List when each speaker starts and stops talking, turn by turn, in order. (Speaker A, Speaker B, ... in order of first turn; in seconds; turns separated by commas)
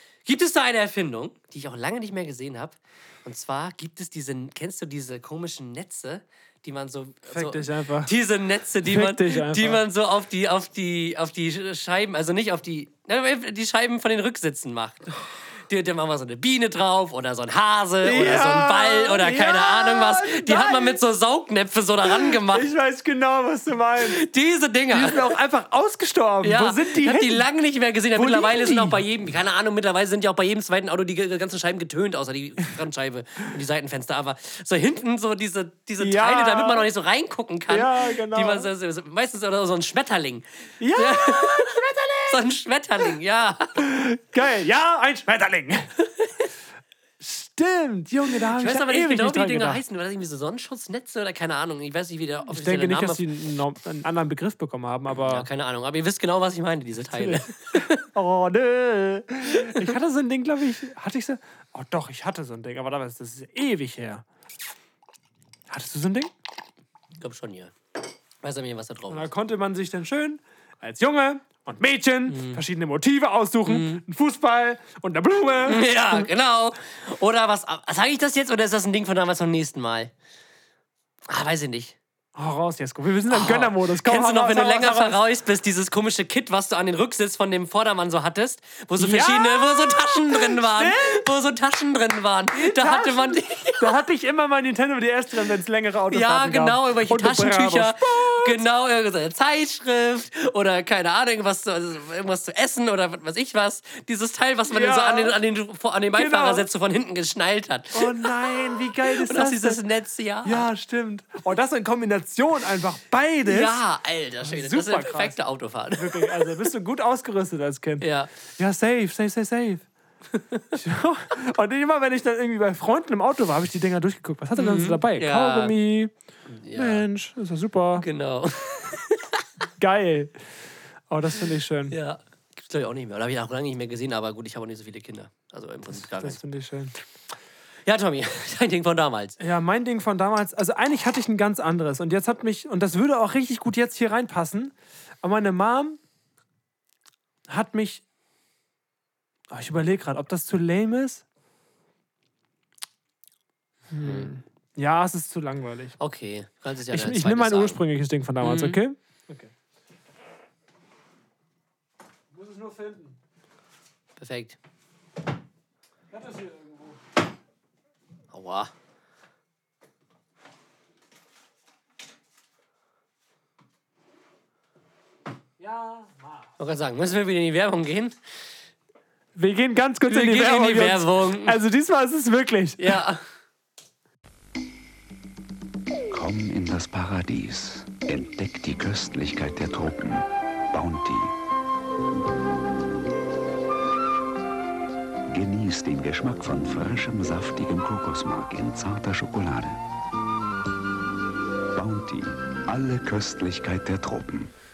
Speaker A: 0.2-22.7, Speaker B: 7.3-8.2, Speaker B: 8.8-9.8, Speaker B: 18.0-21.0, Speaker B: 22.0-24.2, Speaker A: 24.0-25.4, Speaker B: 24.9-27.5, Speaker A: 26.4-43.8, Speaker B: 28.1-29.0, Speaker B: 36.0-36.9, Speaker B: 37.7-38.7, Speaker B: 40.8-42.4, Speaker B: 43.8-45.9, Speaker B: 47.2-49.8, Speaker A: 48.5-53.3, Speaker B: 52.5-55.5, Speaker A: 55.1-58.1, Speaker B: 57.1-64.2, Speaker A: 59.5-59.9, Speaker B: 65.7-66.3, Speaker A: 67.2-67.7, Speaker A: 68.4-69.3, Speaker B: 69.1-76.3, Speaker A: 72.3-72.6, Speaker A: 73.7-74.0, Speaker A: 75.7-80.1, Speaker A: 81.3-82.0, Speaker B: 82.3-85.2, Speaker A: 83.3-94.0, Speaker B: 89.0-91.3, Speaker B: 92.6-98.6, Speaker A: 96.1-110.7, Speaker B: 104.7-105.4, Speaker B: 106.1-106.7, Speaker B: 107.9-109.8, Speaker B: 110.4-113.8, Speaker A: 113.5-116.7, Speaker B: 114.4-115.4, Speaker B: 116.0-119.9, Speaker A: 118.0-118.3, Speaker A: 120.3-120.7, Speaker B: 120.7-126.1, Speaker A: 124.6-125.8, Speaker A: 126.5-127.0, Speaker B: 126.8-128.1, Speaker A: 128.0-129.4, Speaker B: 129.8-130.4, Speaker B: 131.1-132.0, Speaker A: 131.9-136.4, Speaker B: 135.9-136.9, Speaker A: 137.9-139.4, Speaker B: 139.4-146.0, Speaker B: 147.5-148.0, Speaker B: 149.5-151.2, Speaker B: 153.9-156.0, Speaker A: 154.0-154.3, Speaker A: 156.0-157.8, Speaker B: 156.9-159.5, Speaker A: 158.4-158.8, Speaker B: 162.3-163.2, Speaker A: 164.2-164.6, Speaker B: 166.1-167.0, Speaker A: 168.3-168.7, Speaker B: 175.6-176.5, Speaker A: 176.6-178.2, Speaker B: 179.3-183.0, Speaker A: 180.1-181.6, Speaker A: 182.8-183.2, Speaker C: 186.1-191.3, Speaker C: 195.3-199.8, Speaker C: 201.7-204.5